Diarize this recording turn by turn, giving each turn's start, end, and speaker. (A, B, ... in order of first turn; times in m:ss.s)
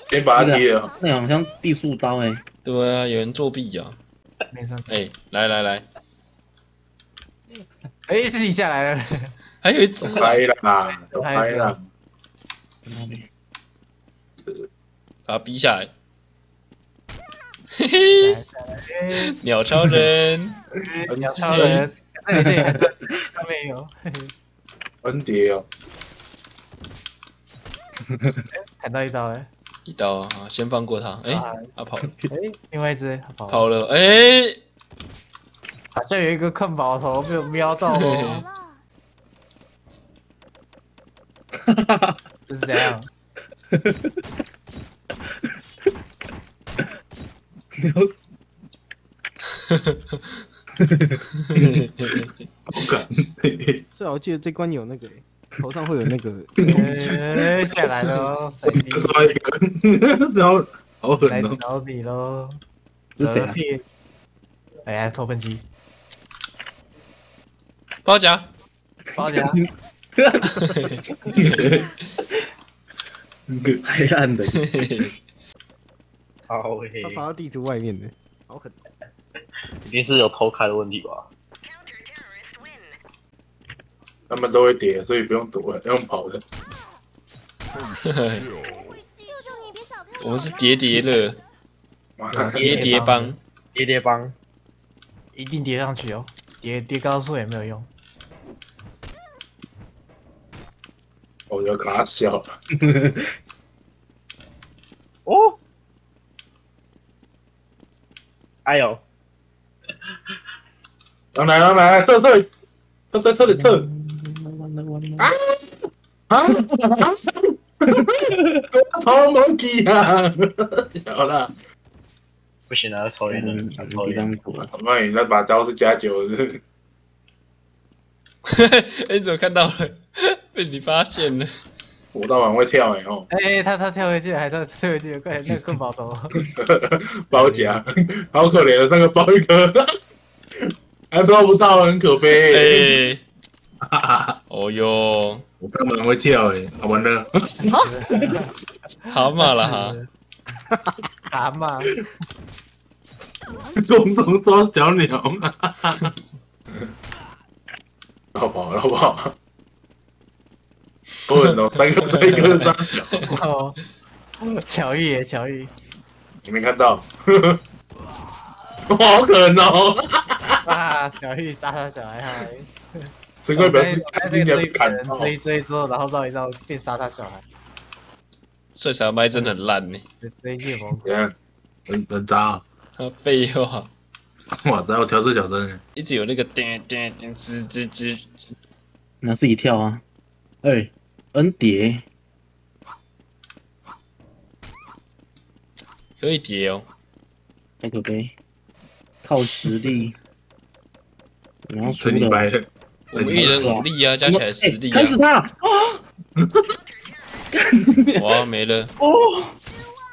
0:00.1-0:00.9 A
0:00.3-0:02.4 B
0:02.6-0:04.0 C
0:04.5-0:05.0 D
0:04.9-0:05.9 C
0:08.1-0:09.3 D
0:09.6-0:10.4 C
0:10.0-0:11.8 A
0:11.1-0:11.8 D
0:12.9-0:13.3 B
0:15.3-0:15.9 C
0:17.8-0:18.4 C
0:18.2-0:19.4 D
0:19.2-0:20.6 C
0:20.8-0:24.3 D
0:21.4-0:21.9 C
0:22.3-0:22.9 B
0:25.0-0:25.7 A
0:28.1-0:28.4 B
0:28.7-0:29.5 D
0:29.9-0:32.2 C
0:31.3-0:31.7 D
0:32.0-0:32.3 B
0:32.3-0:33.7 D
0:33.5-0:34.6 C
0:35.9-0:38.5 D
0:37.9-0:38.4 C
0:41.6-0:42.2 B
0:42.5-0:43.1 D
0:43.7-0:44.2 B
0:47.8-0:48.1 B
0:49.7-0:50.2 C
0:50.8-0:51.2 B
0:51.5-0:52.3 C
0:52.7-0:53.8 A
0:53.9-0:57.0 E
0:56.6-0:57.2 A
0:56.7-0:59.3 D
0:58.7-1:01.6 A
1:01.2-1:02.6 D
1:03.2-1:03.6 B
1:03.2-1:03.8 D
1:04.8-1:05.6 D
1:08.0-1:08.5 C
1:09.2-1:09.6 D
1:09.2-1:09.7 B
1:10.2-1:11.5 B
1:10.6-1:10.9 C
1:11.4-1:11.9 A
1:13.5-1:13.8 A
1:13.8-1:15.1 B
1:14.5-1:15.1 C
1:16.5-1:17.2 F
1:17.0-1:18.8 E
1:19.8-1:21.3 F
1:24.3-1:26.4 A
1:28.0-1:28.5 C
1:30.2-1:31.4 C
1:32.2-1:33.0 A
1:32.3-1:33.4 D
1:32.6-1:33.4 C
1:33.7-1:34.4 F
1:35.4-1:37.9 D
1:41.5-1:42.5 A
1:42.7-1:43.3 B
1:45.3-1:45.6 F
1:48.7-1:49.0 F
1:51.4-1:52.5 A
1:53.1-1:53.8 A
1:53.4-1:55.3 B
1:55.2-2:01.5 A
2:02.7-2:04.3 F
2:03.3-2:04.7 B
2:04.6-2:06.6 A
2:08.5-2:11.5 C
2:12.1-2:13.3 A
2:13.3-2:16.4 D
2:16.5-2:19.9 A
2:17.3-2:17.8 B
2:20.6-2:22.9 A
2:22.4-2:23.2 C
2:23.8-2:24.4 A
2:24.5-2:25.4 C
2:25.6-2:27.9 A
2:27.8-2:28.5 D
2:29.1-2:30.0 C
2:29.4-2:30.1 D
2:31.3-2:32.0 D
2:33.8-2:36.1 A
2:38.3-2:39.3 A
2:41.3-2:43.4 A
2:42.2-2:42.7 C
2:43.2-2:43.8 D
2:44.4-2:45.7 D
2:46.4-2:47.6 A
2:48.9-2:50.6 A
2:50.6-2:57.4 D
2:53.4-2:55.3 A
2:58.8-3:00.0 C
2:59.3-2:59.6 D
3:00.2-3:01.1 D
3:01.0-3:01.3 A
3:01.9-3:02.6 A
3:03.0-3:03.9 C
3:04.5-3:05.8 A
3:06.0-3:08.3 C
3:09.2-3:10.0 B
3:10.6-3:12.0 B
3:16.2-3:16.9 C
3:17.8-3:18.3 B
3:19.2-3:20.2 B
3:21.7-3:22.5 B
3:21.8-3:23.8 A
3:23.1-3:25.2 C
3:23.1-3:26.0 B
3:26.4-3:26.6 A
3:27.5-3:28.4 B
3:28.2-3:28.9 C
3:29.0-3:29.5 F